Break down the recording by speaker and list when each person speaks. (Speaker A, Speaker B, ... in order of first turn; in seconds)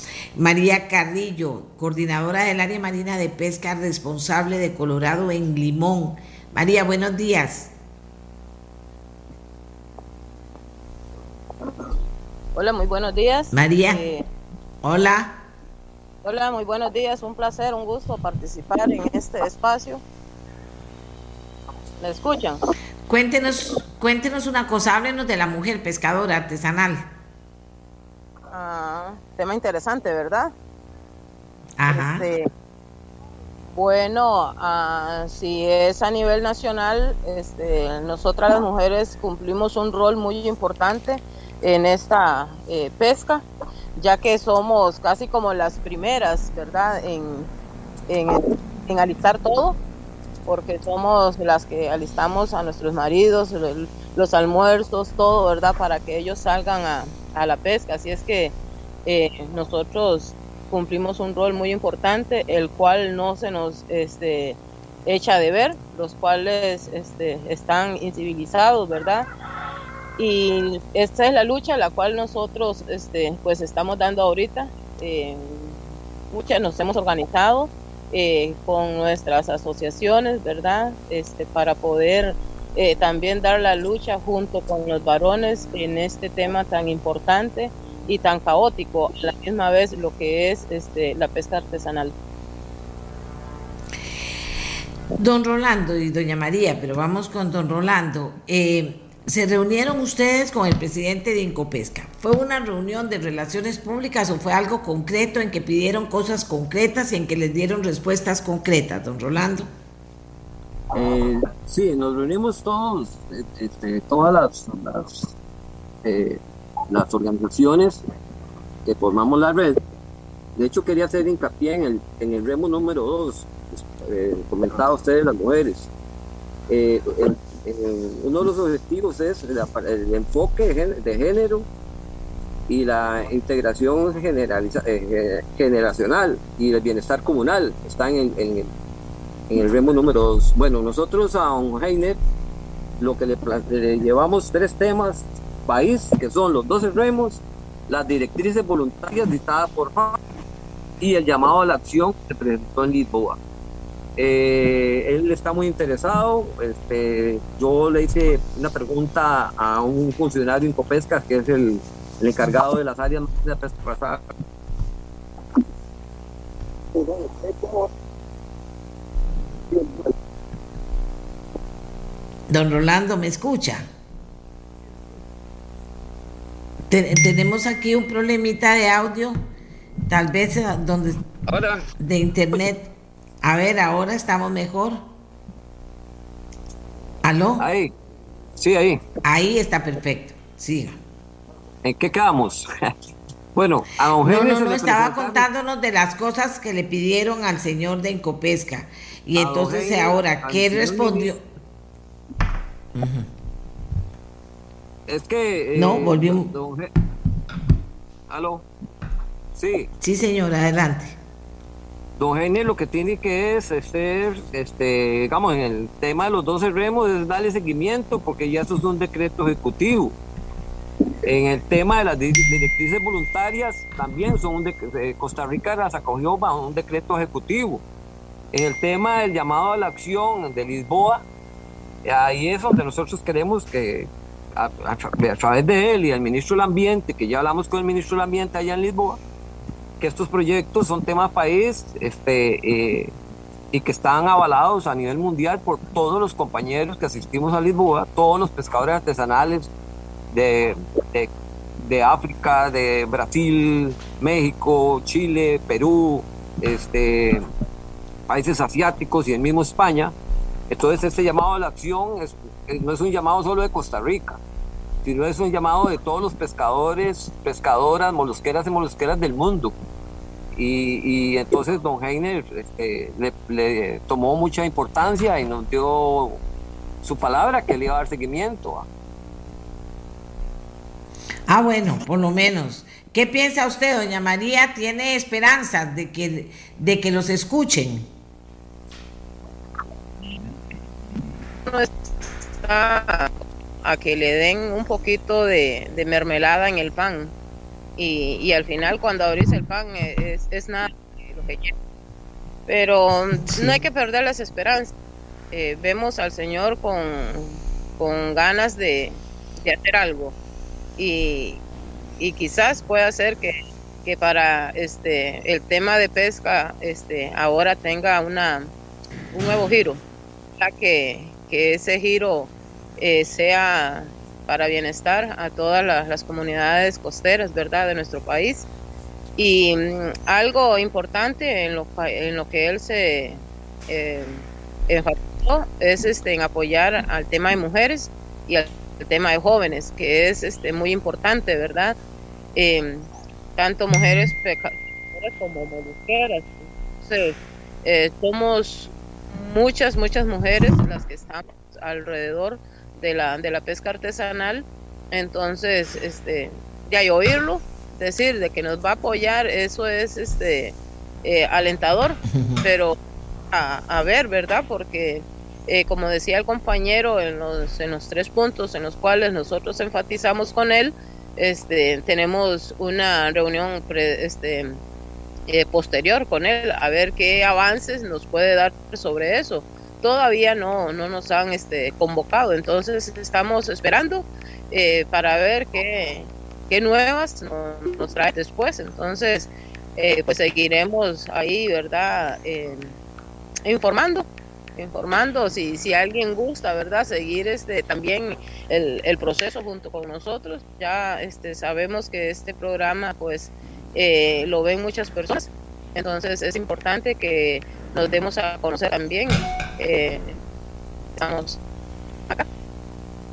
Speaker A: 0.4-7.7, 13.5-14.0, 14.8-15.4, 23.1-27.0, 31.8-32.3, 95.2-109.7, 172.5-173.8, 176.9-179.4, 180.1-181.2, 182.0-182.9, 183.4-185.0, 187.2-187.7, 189.2-191.0, 194.2-201.4, 202.9-203.3, 205.7-206.5, 210.0-211.1, 281.5-288.1
Speaker B: 12.6-14.2, 16.2-20.0, 22.0-22.6, 28.5-30.5, 31.9-32.5, 33.7-43.5, 44.0-47.5, 48.1-49.8, 50.5-58.5, 59.1-69.3, 70.2-75.8, 76.3-92.1, 291.7-293.3, 293.8-297.3, 298.0-301.7, 302.7-304.9, 305.5-310.4, 311.0-311.6, 312.2-313.5, 314.1-318.7, 319.3-320.0, 320.6-328.7, 329.4-342.0, 342.6-363.0, 363.5-374.8, 375.5-392.9, 393.6-410.4, 411.2-411.6
Speaker C: 110.9-115.3, 116.0-118.0, 118.8-119.8, 120.6-125.9, 126.7-131.7, 132.7-138.7, 139.5-142.2, 143.0-150.2, 151.0-153.4, 154.2-164.2, 181.5-181.9, 187.6-187.9, 188.6-189.0, 191.8-193.0, 193.6-195.5, 199.3-201.3, 205.1-206.9, 208.3-208.7, 209.6-209.9, 212.2-220.2, 221.2-227.8, 228.5-231.2, 232.1-239.2, 240.0-243.1, 243.7-249.7, 250.3-257.5, 258.3-260.1, 260.7-264.4, 265.0-269.8, 270.6-276.4, 277.0-278.9